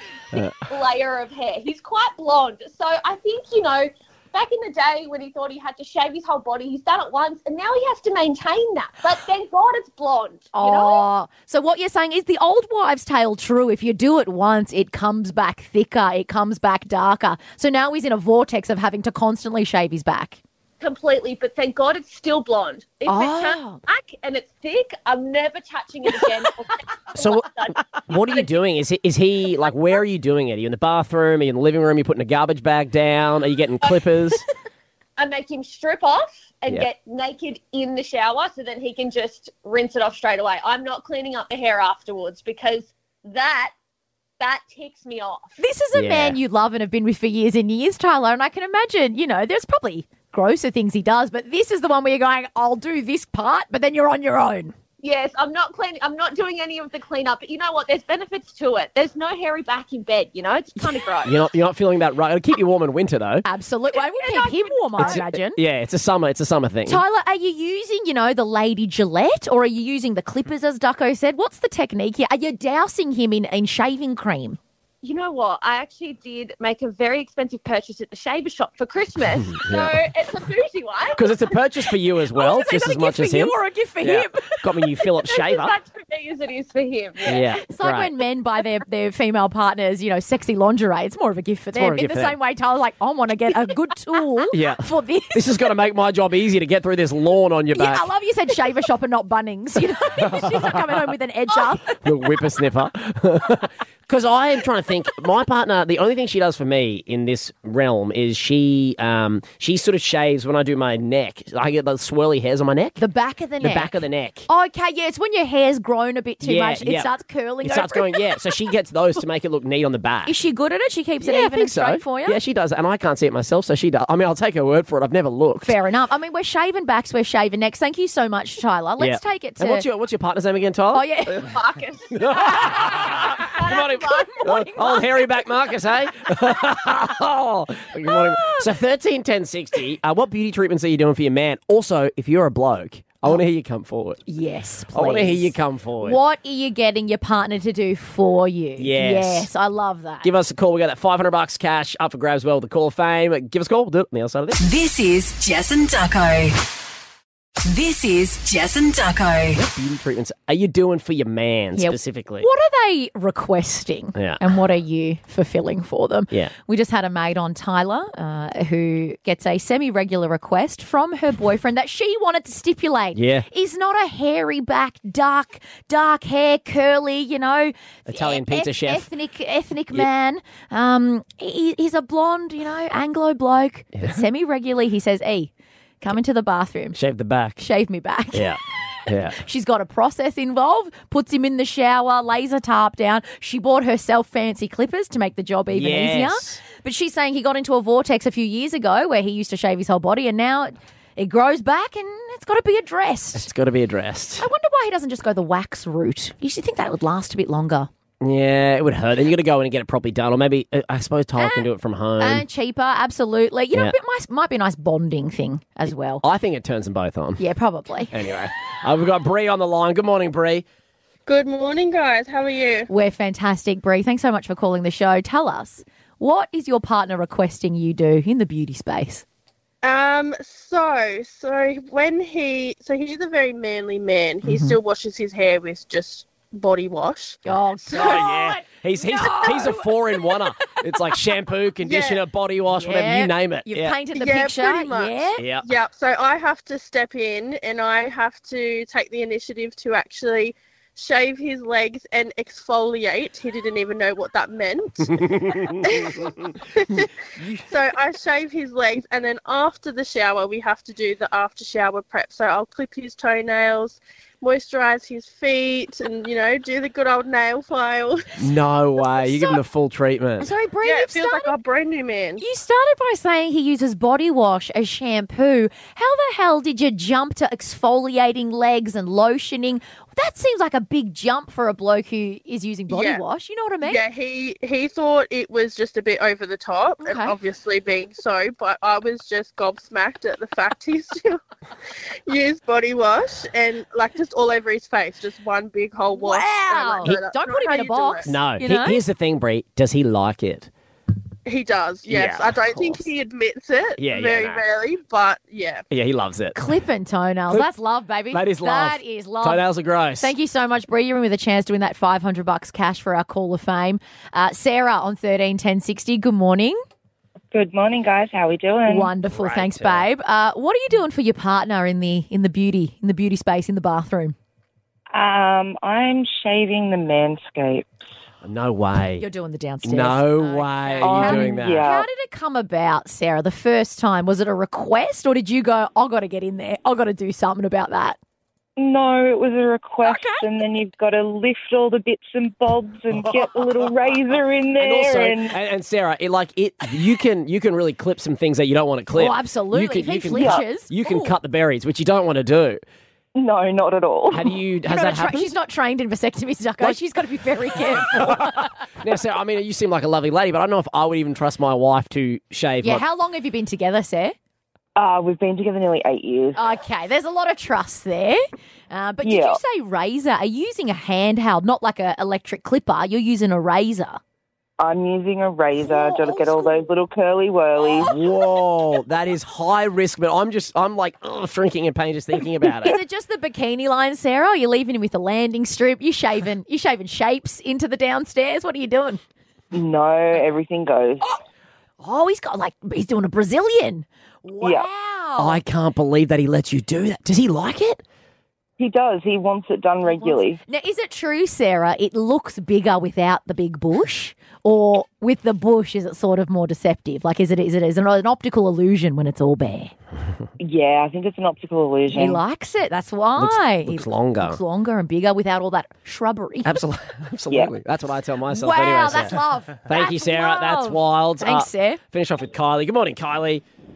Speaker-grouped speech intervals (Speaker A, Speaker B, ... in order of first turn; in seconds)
Speaker A: 0.5-11.0, 20.8-28.4, 35.2-43.7, 44.4-45.6, 55.0-61.4, 63.9-65.2, 75.0-81.6, 85.2-87.4, 131.4-134.3
Speaker B: 10.5-20.4, 23.1-23.8, 45.6-54.7, 63.4-65.6, 66.9-74.6, 82.3-84.6, 87.6-95.5, 97.7-102.0, 113.0-118.5, 120.2-122.4, 125.6-129.8, 130.9-131.5, 132.5-135.1, 138.1-138.6, 144.3-150.3, 161.7-187.0, 187.6-188.6, 189.3-203.5, 204.4-207.9, 211.4-211.7, 212.2-216.2, 217.4-218.1, 222.9-229.2, 234.4-234.8, 237.4-240.8, 242.7-245.4, 269.1-269.6, 270.4-271.5, 272.4-284.0, 287.0-287.3, 296.1-299.0, 306.5-309.6, 310.2-316.8, 318.9-324.4, 329.2-338.2, 340.0-340.5, 349.1-351.3, 354.9-358.7, 362.8-364.4, 366.5-374.2, 375.8-376.9, 377.8-378.2, 382.8-389.2, 392.0-395.6, 400.0-409.9, 412.1-416.8, 418.5-422.0
Speaker C: 27.1-27.5, 28.1-34.4, 45.9-46.4, 61.2-63.4, 65.0-67.0, 79.6-79.9, 81.1-85.7, 87.2-88.1, 91.7-92.3, 94.5-98.1, 100.2-101.0, 102.0-113.0, 113.6-114.5, 116.4-117.1, 117.6-120.3, 121.2-125.7, 129.0-131.5, 132.1-144.2, 144.9-146.2, 148.8-149.5, 150.2-154.6, 159.6-162.5, 164.1-164.4, 173.1-173.5, 178.1-179.1, 186.9-187.6, 188.3-189.4, 195.7-196.6, 203.3-204.5, 208.2-212.4, 216.2-217.4, 218.1-220.6, 237.9-244.0, 245.4-245.7, 255.2-256.0, 257.4-257.6, 268.4-270.5, 298.2-300.7, 302.0-303.1, 304.0-304.6, 305.9-306.6, 308.3-310.3, 319.3-320.1, 328.4-329.2, 329.8-331.9, 344.8-352.8, 354.3-355.5, 357.8-363.0, 378.1-383.0, 395.4-398.0, 413.4-414.6, 416.6-423.6
Speaker D: 154.6-156.6, 157.6-159.6
Speaker E: 221.2-222.9, 229.8-237.4, 241.8-242.2, 244.1-257.1, 257.6-268.2, 270.8-272.4, 282.9-283.2, 283.8-291.4, 292.3-298.3, 301.4-305.8
Speaker F: 317.5-319.1, 325.1-327.9, 331.0-332.1, 338.8-345.6, 350.3-350.6, 353.4-354.6, 364.9-366.6, 369.2-369.6, 374.8-378.1, 389.7-391.3, 394.6-394.9, 398.8-400.6, 410.6-412.4, 417.5-417.7